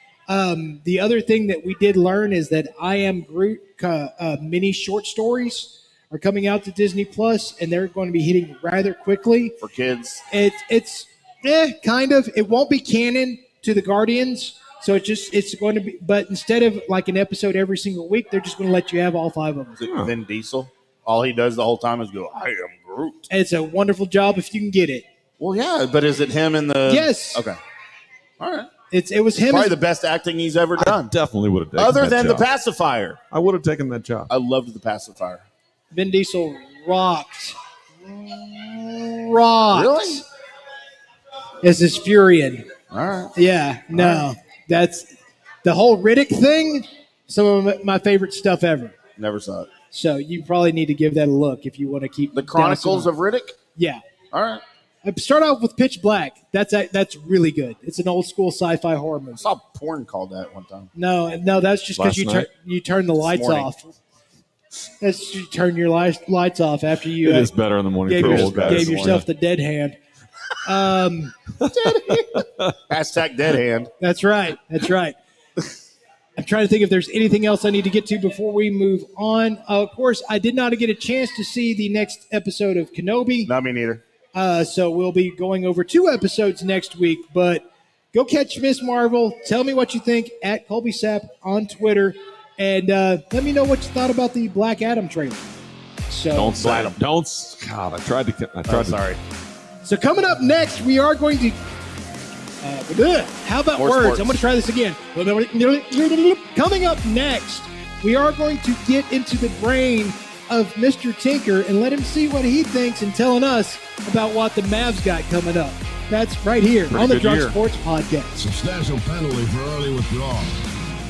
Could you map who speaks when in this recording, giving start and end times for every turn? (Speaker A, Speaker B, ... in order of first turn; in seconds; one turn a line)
Speaker A: 0.3-9.6
Speaker B: 9.6-10.2
Speaker A: 10.3-19.8
Speaker B: 19.8-23.3
Speaker C: 19.8-20.1
Speaker A: 23.3-25.1
Speaker B: 25.4-27.6
Speaker A: 26.9-27.4
Speaker B: 28.4-28.7
Speaker A: 28.9-29.7
Speaker B: 29.4-31.1
Speaker C: 30.8-32.5
Speaker B: 31.8-33.2
Speaker C: 33.3-34.3
Speaker B: 34.3-35.5
Speaker A: 35.9-40.2
Speaker B: 39.7-40.2
Speaker A: 41.6-42.6
Speaker B: 42.9-43.3
Speaker A: 43.4-45.1
Speaker B: 43.9-44.3
Speaker A: 45.6-49.0
Speaker B: 49.2-49.7
Speaker A: 49.9-53.1
Speaker B: 52.3-53.5
Speaker A: 53.7-54.0
Speaker B: 54.3-54.6
Speaker A: 55.0-59.5
Speaker B: 59.4-60.9
Speaker A: 60.9-63.9
Speaker C: 62.0-62.5
Speaker B: 63.2-63.7
Speaker A: 65.0-67.5
Speaker C: 67.2-69.2
Speaker A: 68.1-70.0
Speaker B: 68.2-69.2
Speaker A: 70.6-71.3
Speaker C: 71.6-72.7
Speaker B: 71.7-72.2
Speaker B: 72.9-73.9
Speaker A: 74.0-75.2
Speaker A: 76.3-83.5
Speaker B: 83.5-84.0
Speaker A: 84.3-95.5
Speaker A: 96.1-96.7
Speaker C: 96.3-99.0
Speaker B: 96.6-97.0
Speaker B: 98.7-99.2
Speaker A: 99.8-101.6
Speaker A: 102.6-118.4
Speaker B: 103.8-104.3
Speaker C: 116.9-117.5
Speaker D: 118.4-120.7